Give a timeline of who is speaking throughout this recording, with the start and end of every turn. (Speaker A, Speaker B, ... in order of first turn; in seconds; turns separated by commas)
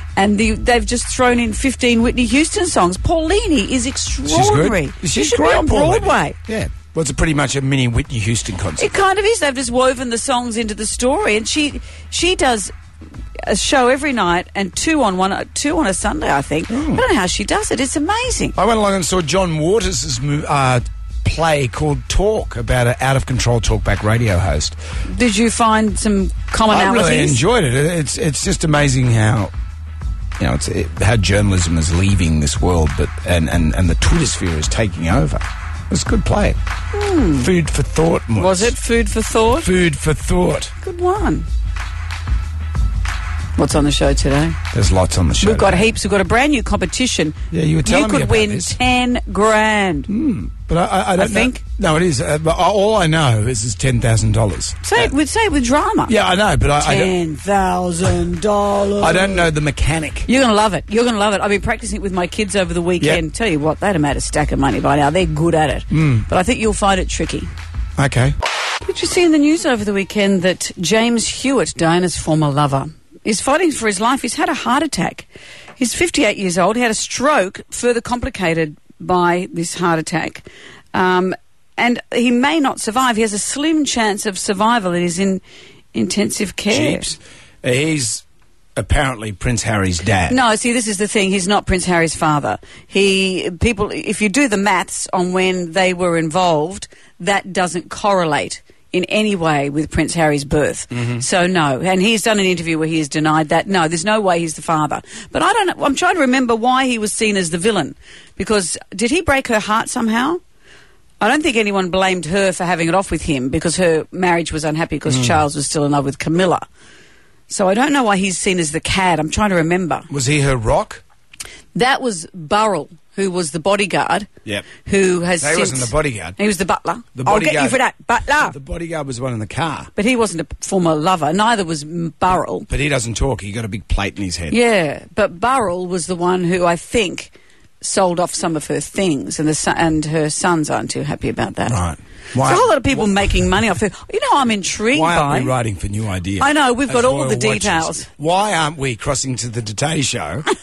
Speaker A: 0.2-6.4, Speaker B: 4.3-8.9, Speaker A: 8.8-12.7, Speaker A: 13.5-18.6, Speaker B: 16.7-17.0, Speaker B: 18.6-24.8, Speaker A: 25.1-27.4, Speaker B: 26.7-29.5, Speaker B: 30.4-36.6, Speaker A: 36.9-37.5, Speaker B: 37.4-38.7, Speaker A: 38.4-39.7, Speaker B: 39.6-40.7, Speaker A: 40.8-41.5, Speaker A: 43.6-44.6, Speaker B: 44.7-45.9, Speaker A: 45.4-50.1, Speaker B: 47.5-48.8, Speaker B: 50.1-55.1, Speaker A: 51.2-51.6, Speaker A: 54.8-56.1, Speaker B: 56.1-57.1, Speaker A: 56.8-59.5, Speaker B: 59.0-60.3, Speaker A: 60.3-67.5, Speaker B: 65.9-66.3, Speaker B: 68.0-68.3, Speaker A: 68.8-75.3, Speaker A: 75.8-85.4, Speaker A: 85.9-87.1, Speaker B: 86.7-88.2, Speaker B: 88.8-90.4, Speaker A: 90.3-110.4, Speaker B: 100.9-101.2, Speaker A: 111.2-116.6, Speaker B: 115.1-115.4, Speaker A: 117.5-120.1, Speaker B: 120.1-121.0, Speaker A: 121.7-124.3, Speaker A: 124.8-128.5, Speaker B: 125.4-126.4, Speaker B: 127.2-127.8, Speaker B: 128.4-129.9, Speaker A: 130.0-132.7, Speaker B: 132.7-134.6, Speaker A: 134.5-141.8, Speaker B: 141.7-143.5, Speaker A: 142.4-145.5, Speaker B: 144.9-150.5, Speaker A: 146.4-148.1